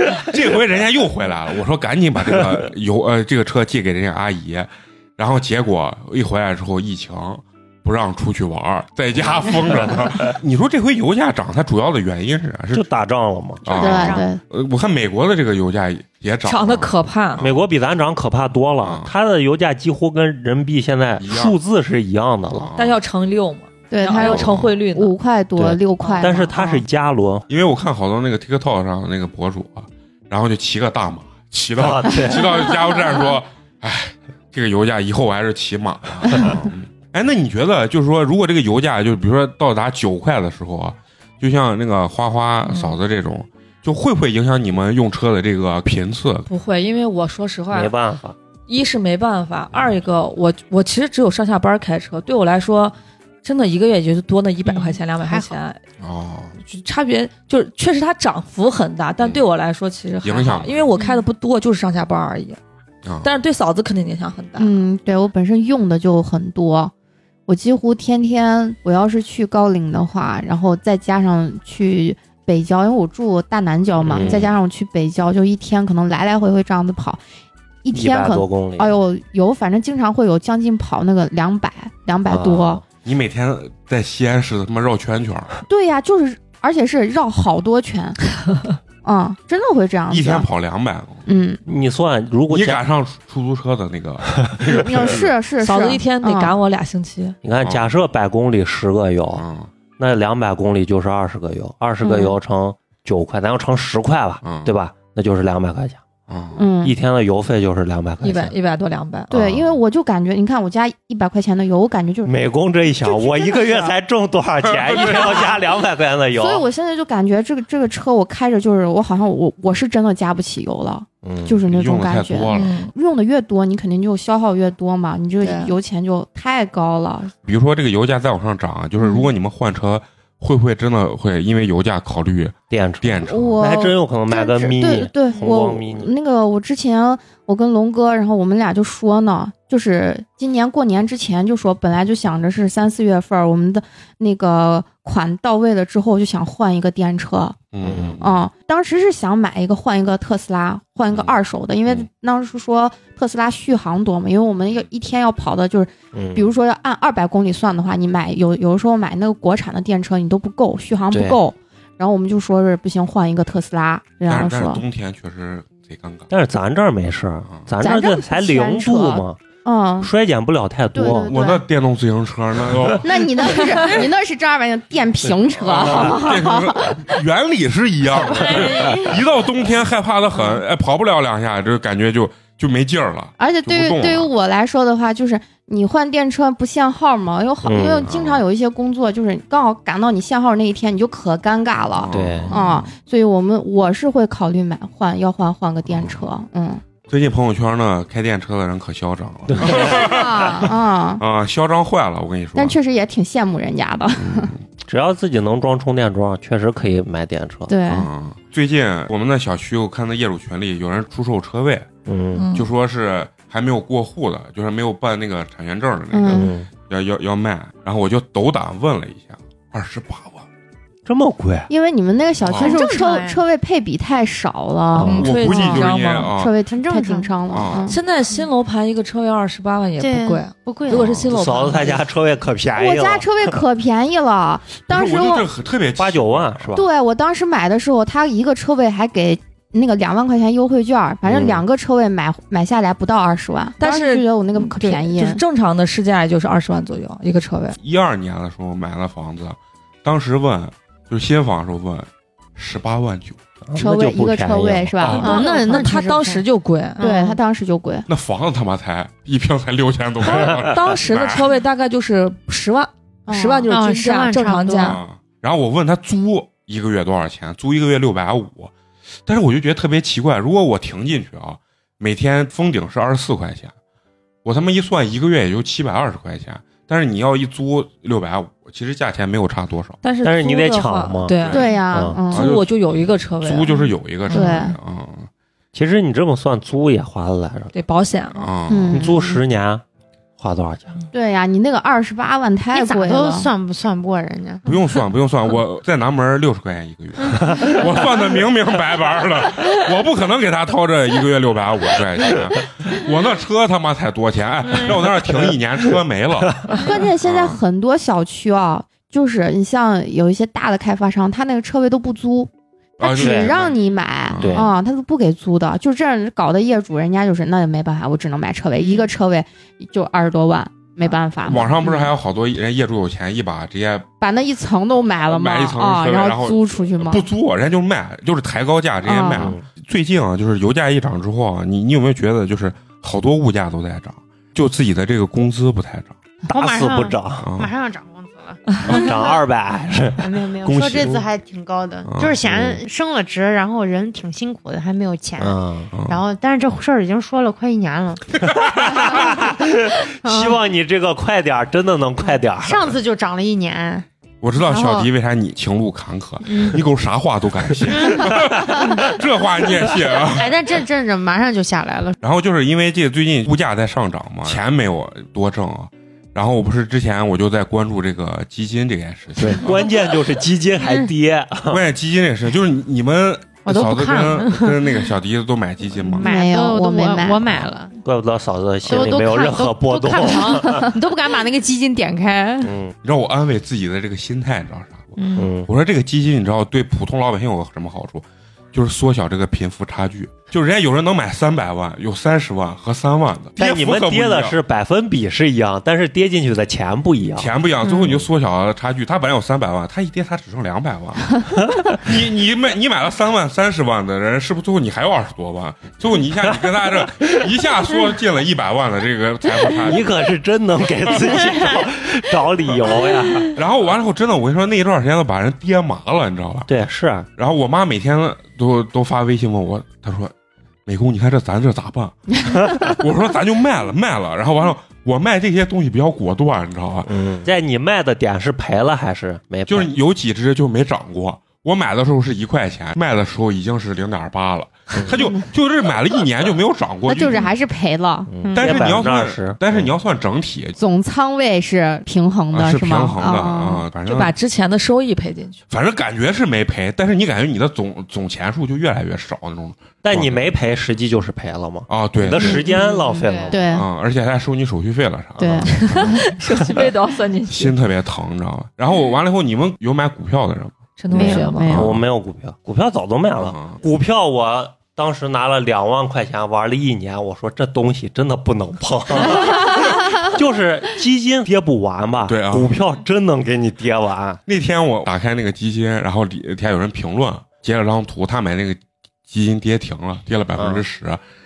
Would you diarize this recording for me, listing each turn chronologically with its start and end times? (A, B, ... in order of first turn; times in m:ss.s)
0:00.2-0:12.8 A
0:09.8-0:10.3 B
0:12.7-0:13.6 B
0:13.6-0:17.6 A
0:13.6-0:14.3 C
0:13.7-0:14.4 D
0:16.4-0:17.4 E
0:17.4-0:22.7 B
0:18.8-0:19.1 A
0:21.2-0:21.6 A
0:22.5-0:23.0 A
0:22.8-0:25.1 E
0:23.9-0:26.8 D
0:24.2-0:24.6 B
0:24.4-0:24.7 A
0:25.6-0:27.5 B
0:27.5-0:46.5 A
0:31.8-0:32.7 B
0:36.3-0:36.6 B
0:46.5-0:47.9 E
0:47.7-0:48.4 B
0:48.7-0:55.8 E
0:54.6-0:55.6 C
0:56.0-0:56.5 A
0:56.6-1:02.6 E
1:00.2-1:00.9 A
1:01.0-1:01.2 C
1:03.0-1:03.3 A
1:03.2-1:04.8 E
1:04.6-1:06.9 D
1:07.5-1:17.2 D
1:14.0-1:14.5 B
1:14.1-1:14.5 A
1:17.8-1:22.8 D
1:17.9-1:19.0 B
1:22.3-1:22.8 B
1:23.0-1:25.5 A
1:25.7-1:28.2 D
1:29.0-1:30.5 D
1:30.1-1:31.2 A
1:31.2-1:31.6 D
1:31.6-1:32.8 B
1:32.5-1:35.3 A
1:34.8-1:36.6 D
1:35.6-1:37.4 E
1:37.4-1:39.4 B
1:37.6-1:37.9 A
1:39.3-1:39.7 A
1:40.0-1:46.0 B
1:42.0-1:42.3 D
1:44.4-1:44.7 A
1:46.3-1:46.6 A
1:46.6-1:47.0 D
1:46.8-1:48.6 B
1:48.2-1:49.3 E
1:49.3-1:52.3 D
1:49.3-1:49.8 A
1:52.2-1:56.6 B
1:53.0-1:53.9 D
1:54.6-1:55.6 A
1:55.0-1:55.5 D
1:56.3-2:07.3 D
2:01.2-2:01.6 B
2:01.6-2:02.8 A
2:02.5-2:02.9 E
2:05.4-2:05.7 E
2:07.4-2:13.6 A
2:09.0-2:09.3 D
2:12.7-2:16.1 B
2:13.2-2:27.6 D
2:27.7-2:28.4 A
2:27.8-2:28.2 B
2:28.2-2:44.8 D
2:36.1-2:36.5 B
2:41.1-2:41.4 B
2:44.2-2:46.3 A
2:46.3-2:49.4 B
2:47.8-2:50.1 D
2:50.0-2:51.3 B
2:50.9-2:51.6 D
2:51.0-2:53.6 A
2:53.0-2:57.2 D
2:55.6-3:04.3 A
2:55.7-2:56.2 B
2:58.5-2:59.0 D
2:58.6-2:59.1 B
3:03.4-3:16.8 D
3:07.6-3:08.1 B
3:08.0-3:08.4 A
3:11.9-3:12.8 A
3:12.1-3:12.8 B
3:15.8-3:16.2 A
3:17.1-3:22.8 A
3:19.5-3:20.0 B
3:19.7-3:21.2 D
3:22.6-3:24.5 D
3:24.2-3:24.6 A
3:24.8-3:27.7 B
3:27.7-3:28.1 D
3:27.9-3:31.9 A
3:32.0-3:32.4 B
3:32.3-3:32.7 E
3:32.5-3:40.4 A
3:36.1-3:36.5 D
3:36.3-3:36.7 B
3:41.0-3:41.7 B
3:41.7-3:48.0 D
3:42.4-3:42.8 A
3:42.6-3:43.4 C
3:44.9-3:45.3 B
3:45.0-3:46.3 E
3:45.2-3:46.5 A
3:46.7-3:47.3 C
3:47.5-3:47.9 A
3:47.8-3:52.0 E
3:50.0-3:51.3 C
3:50.9-3:53.6 B
3:52.7-3:55.5 D
3:54.8-3:56.7 A
3:56.0-3:56.9 B
3:56.7-4:05.4 D
4:01.2-4:01.6 B
4:03.8-4:07.8 E
4:07.8-4:13.4 A
4:13.7-4:15.0 B
4:13.8-4:15.9 D
4:15.0-4:15.3 A
4:15.1-4:17.0 E
4:15.2-4:16.5 C
4:17.0-4:17.4 C
4:17.0-4:18.1 D
4:18.1-4:21.5 A
4:20.2-4:25.0 E
4:23.3-4:23.7 D
4:23.7-4:25.0 C
4:24.8-4:28.7 A
4:29.2-4:33.7 A
4:34.4-4:40.0 A
4:40.0-4:43.7 E
4:40.2-4:42.2 B
4:41.3-4:41.7 A
4:41.5-4:42.5 D
4:42.3-4:45.3 A
4:44.3-4:44.7 E
4:44.3-4:44.7 D
4:45.7-4:47.7 B
4:47.7-4:48.4 E
4:48.3-4:49.1 A
4:48.7-4:49.4 D
4:48.9-4:49.8 B
4:50.4-4:51.0 B
4:51.1-4:53.5 D
4:52.7-4:54.6 C
4:54.6-5:07.6 A
5:06.8-5:22.0 D
5:13.0-5:13.7 A
5:13.2-5:13.5 B
5:14.3-5:14.7 A
5:14.4-5:14.7 B
5:18.8-5:19.1 C
5:21.4-5:24.1 A
5:24.2-5:27.2 D
5:25.2-5:36.2 A
5:29.0-5:29.5 D
5:29.3-5:29.6 B
5:36.5-5:39.4 C
5:36.5-5:37.5 B
5:37.4-5:37.7 A
5:38.8-5:41.2 B
5:40.2-5:48.4 C
5:42.1-5:42.4 A
5:42.4-5:42.8 B
5:45.4-5:45.9 B
5:45.9-5:46.2 A
5:48.4-5:49.1 A
5:48.6-5:52.9 B
5:48.9-5:49.3 C
5:50.2-5:50.6 C
5:52.2-5:54.0 C
5:54.4-6:00.6 A
5:54.6-5:55.1 D
5:56.4-5:56.8 C
5:57.9-5:59.1 C
5:59.9-6:02.2 C
6:02.2-6:09.9 A
6:09.4-6:11.8 B
6:10.8-6:11.1 C
6:11.7-6:16.3 A
6:13.6-6:15.1 C
6:16.0-6:17.9 C
6:16.2-6:17.4 D
6:18.0-6:20.9 B
6:18.8-6:22.7 C
6:22.6-6:22.9 B
6:23.0-6:34.6 A
6:25.2-6:25.5 C
6:25.4-6:25.7 B
6:33.6-6:37.5 B
6:37.4-6:41.4 A
6:41.6-6:42.0 B
6:42.0-6:50.1 A
6:47.0-6:47.4 B
6:49.7-6:53.6 B
6:51.1-6:51.4 A
6:53.5-6:56.7 A
6:56.7-6:57.3 B
6:57.4-7:00.3 A
7:00.8-7:07.2 A
7:07.1-7:09.9 B
7:09.7-7:17.5 A
7:15.2-7:15.4 D
7:17.1-7:18.3 D
7:18.3-7:19.9 B
7:18.4-7:18.9 C
7:18.5-7:20.8 A
7:20.8-7:23.9 D
7:22.5-7:24.4 A
7:24.0-7:25.6 E
7:25.7-7:30.5 A
7:30.0-7:33.6 B
7:31.9-7:32.7 A
7:32.4-7:33.6 C
7:33.5-7:33.9 D
7:33.7-7:36.3 A
7:35.4-7:36.2 D
7:35.7-7:37.7 E
7:37.5-7:42.0 A
7:41.0-7:41.8 E
7:41.1-7:41.5 C
7:41.1-7:41.9 D
7:41.7-7:54.4 B
7:43.4-7:43.8 A
7:52.3-7:52.8 A
7:54.5-8:01.2 A
8:00.6-8:00.8 B